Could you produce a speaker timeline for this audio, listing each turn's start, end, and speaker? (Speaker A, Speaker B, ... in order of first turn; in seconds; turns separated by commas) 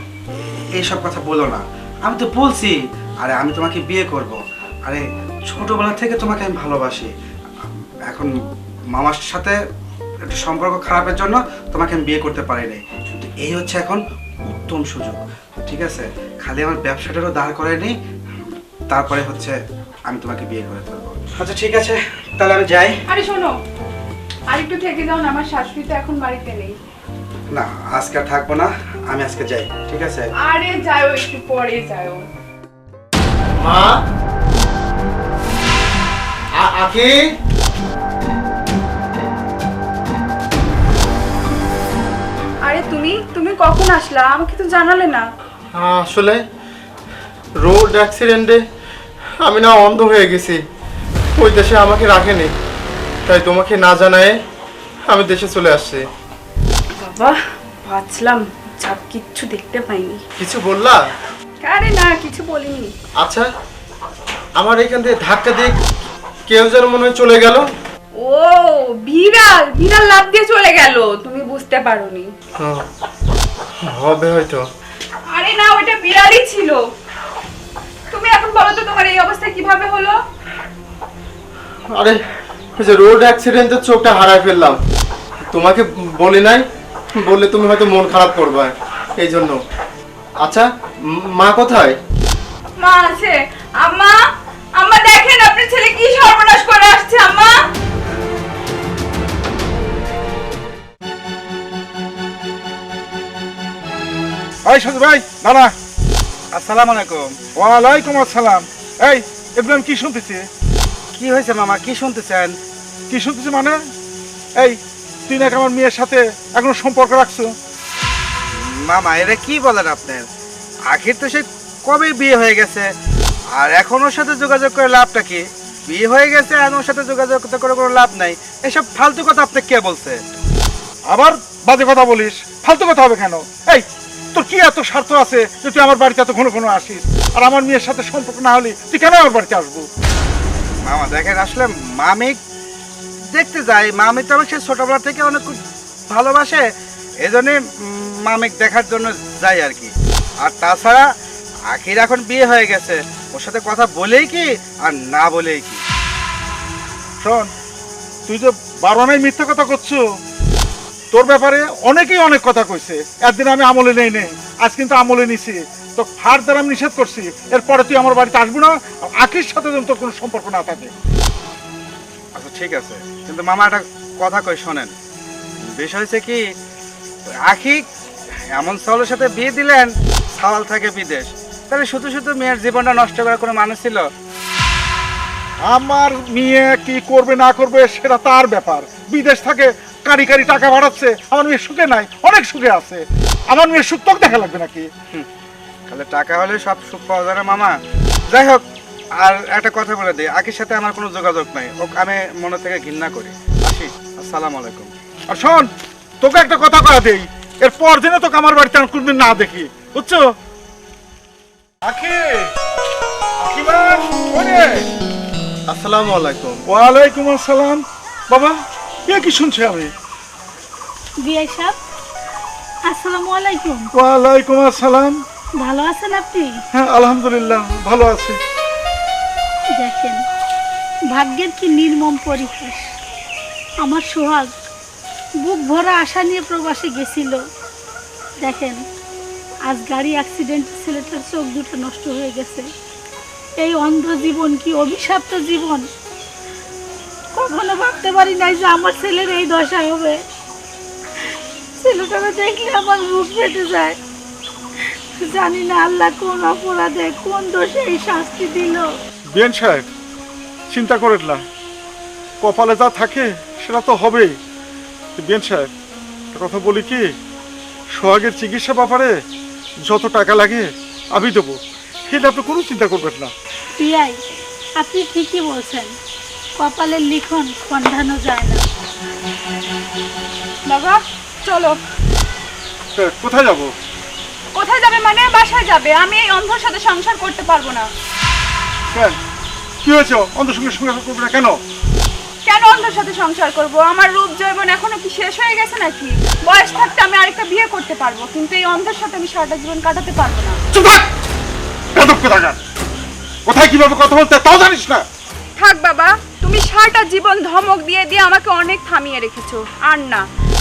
Speaker A: 0.4-7.1, Speaker A: 8.1-8.3, Speaker A: 8.9-9.6, Speaker A: 10.2-17.9, Speaker A: 18.9-19.6, Speaker A: 20.1-23.0, Speaker B: 23.1-23.5, Speaker B: 24.5-26.8, Speaker A: 27.5-30.3, Speaker B: 30.4-32.2, Speaker C: 33.6-34.0, Speaker C: 36.6-37.2, Speaker B: 42.6-45.2, Speaker C: 45.7-46.4, Speaker C: 47.6-48.6, Speaker C: 49.4-50.6, Speaker C: 51.4-52.5, Speaker C: 53.2-54.4, Speaker C: 55.1-56.0, Speaker B: 56.9-60.2, Speaker C: 60.4-61.0, Speaker B: 61.6-62.9, Speaker C: 63.2-63.5, Speaker C: 64.6-65.8, Speaker C: 66.5-67.6, Speaker B: 68.2-72.3, Speaker C: 72.6-72.8, Speaker C: 73.8-74.6, Speaker B: 75.3-76.8, Speaker B: 78.1-80.2, Speaker C: 81.9-82.2, Speaker C: 82.8-84.8, Speaker C: 85.5-86.6, Speaker C: 87.2-89.6, Speaker C: 90.4-92.0, Speaker B: 92.8-94.2, Speaker B: 94.8-97.6, Speaker D: 104.6-105.7, Speaker A: 106.5-107.4, Speaker D: 107.5-110.4, Speaker A: 111.1-112.5, Speaker D: 113.1-113.8, Speaker D: 114.6-117.5, Speaker A: 118.5-120.2, Speaker A: 120.9-122.9, Speaker A: 123.5-130.2, Speaker D: 131.1-139.9, Speaker A: 140.8-142.4, Speaker A: 143.3-145.6, Speaker A: 146.1-146.6, Speaker A: 147.2-151.1, Speaker A: 151.7-155.8, Speaker D: 157.2-157.5, Speaker D: 158.3-160.0, Speaker D: 161.1-170.9, Speaker A: 172.3-174.9, Speaker A: 175.6-176.4, Speaker A: 177.4-177.8, Speaker A: 178.5-184.1, Speaker D: 185.7-194.9, Speaker A: 195.9-198.6, Speaker A: 199.2-204.9, Speaker D: 205.3-205.7, Speaker D: 206.2-210.3, Speaker D: 211.8-212.5, Speaker D: 213.4-214.8, Speaker C: 215.7-216.6, Speaker D: 216.7-219.9, Speaker E: 221.2-221.8, Speaker E: 222.9-223.9, Speaker D: 223.9-225.2, Speaker E: 225.6-226.6, Speaker D: 226.7-228.4, Speaker E: 229.7-230.2, Speaker E: 231.1-232.9, Speaker E: 233.8-234.5, Speaker E: 235.4-237.4, Speaker E: 238.4-238.8, Speaker E: 239.7-242.7, Speaker E: 243.6-245.8, Speaker E: 247.3-250.2, Speaker E: 251.2-254.0, Speaker E: 254.8-258.9, Speaker D: 259.3-259.8, Speaker D: 260.7-261.4, Speaker D: 262.4-264.4, Speaker D: 265.1-265.7, Speaker D: 266.3-267.1, Speaker D: 267.9-269.2, Speaker D: 269.8-273.3, Speaker E: 273.8-274.2, Speaker E: 274.8-275.9, Speaker E: 276.6-278.6, Speaker B: 280.7-281.8, Speaker D: 282.9-283.7, Speaker B: 284.5-287.9, Speaker D: 288.9-289.2, Speaker D: 289.8-291.6, Speaker B: 292.4-300.6, Speaker D: 300.7-301.1, Speaker D: 301.9-302.6, Speaker D: 303.4-305.0, Speaker B: 305.6-310.2